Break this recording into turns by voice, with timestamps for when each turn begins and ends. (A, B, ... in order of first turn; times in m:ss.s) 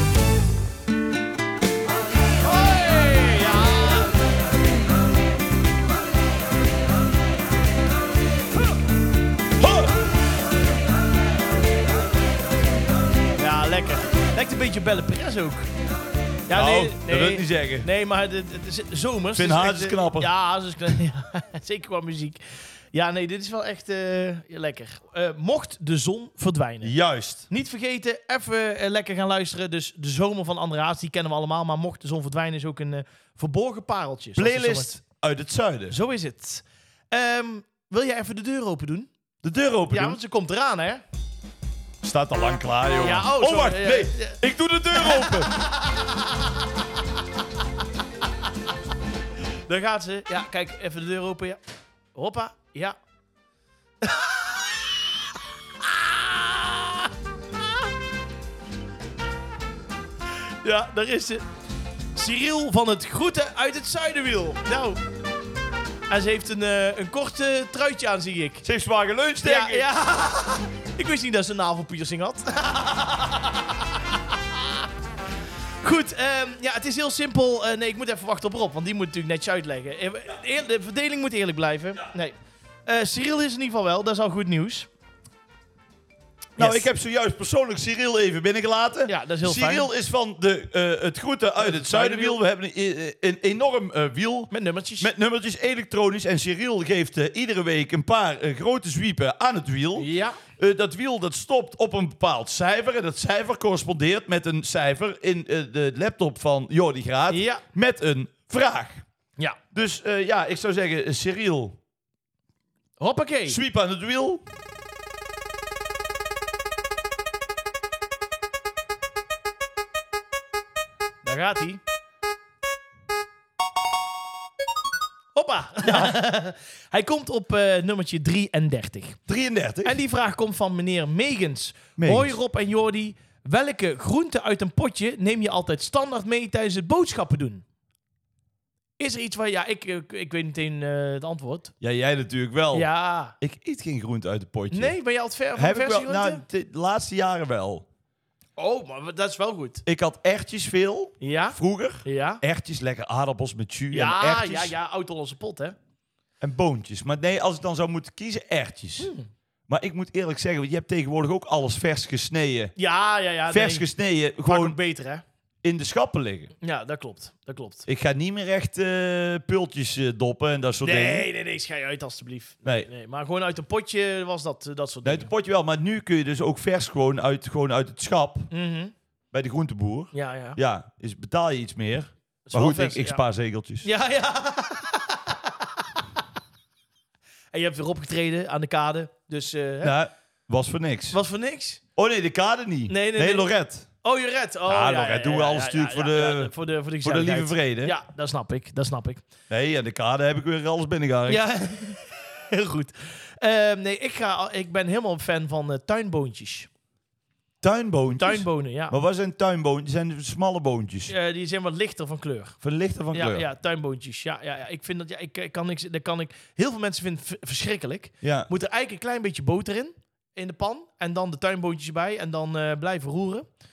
0:02.4-0:04.2 A
0:09.6-0:09.9 B
0:13.4-0:15.7 A
0:16.5-0:22.4 A
0:16.5-0:17.9 B
0:19.4-0:20.3 B
0:22.9-0:26.9 A
0:26.8-0:27.5 B
0:27.5-0:35.0 A
0:34.4-0:36.0 B
0:35.9-0:39.1 A
0:39.4-0:40.2 B
0:39.9-0:41.0 A
0:42.0-0:45.6 B
0:43.0-0:44.4 A
0:44.9-0:46.1 A
0:49.7-0:51.6 A
0:52.2-0:53.0 A
0:54.0-0:55.0 A
0:55.8-0:57.1 A
1:00.6-1:01.4 A
1:02.2-1:05.0 A
1:06.1-1:08.6 A
1:08.6-1:09.9 B
1:09.4-1:13.7 A
1:15.8-1:22.4 A
1:22.9-1:24.9 A
1:26.6-1:26.9 A
1:26.6-1:49.0 B
1:29.1-1:29.9 A
1:31.6-1:32.4 A
1:34.5-1:35.1 A
1:40.0-1:40.4 A
1:47.3-1:47.6 A
1:49.7-1:51.8 B
1:53.0-1:53.6 A
1:53.5-1:54.4 B
2:01.2-2:01.8 A
2:05.4-2:09.2 A
2:09.3-2:10.0 B
2:09.8-2:17.6 A
2:12.0-2:12.4 B
2:19.0-2:21.7 A
2:21.8-2:22.9 B
2:22.7-2:23.4 A
2:23.4-2:25.0 B
2:24.7-2:26.4 A
2:25.6-2:27.8 B
2:28.6-2:29.8 A
2:29.8-2:34.8 B
2:31.2-2:32.4 A
2:33.9-2:35.8 A
2:36.4-2:39.1 B
2:39.0-2:39.3 A
2:39.7-2:42.7 B
2:42.8-2:43.9 A
2:43.5-2:44.8 B
2:44.4-2:45.2 A
2:45.6-2:46.5 B
2:46.6-2:47.8 A
2:47.9-2:51.3 B
2:50.8-2:55.3 A
2:55.0-2:58.5 B
2:58.5-2:58.9 A
2:59.3-3:03.9 B
3:00.1-3:00.6 A
3:02.5-3:03.2 A
3:03.8-3:05.5 A
3:07.5-3:09.9 A
3:09.8-3:11.2 B
3:11.1-3:11.8 A
3:12.0-3:13.9 B
3:12.9-3:13.5 A
3:14.0-3:19.2 A
3:14.7-3:16.5 B
3:17.0-3:17.9 B
3:19.5-3:21.4 B
3:21.3-3:26.7 A
3:27.6-3:31.1 B
3:28.2-3:29.0 A
3:31.1-3:32.6 A
3:32.6-3:33.4 B
3:33.1-3:43.5 A
3:38.2-3:38.5 B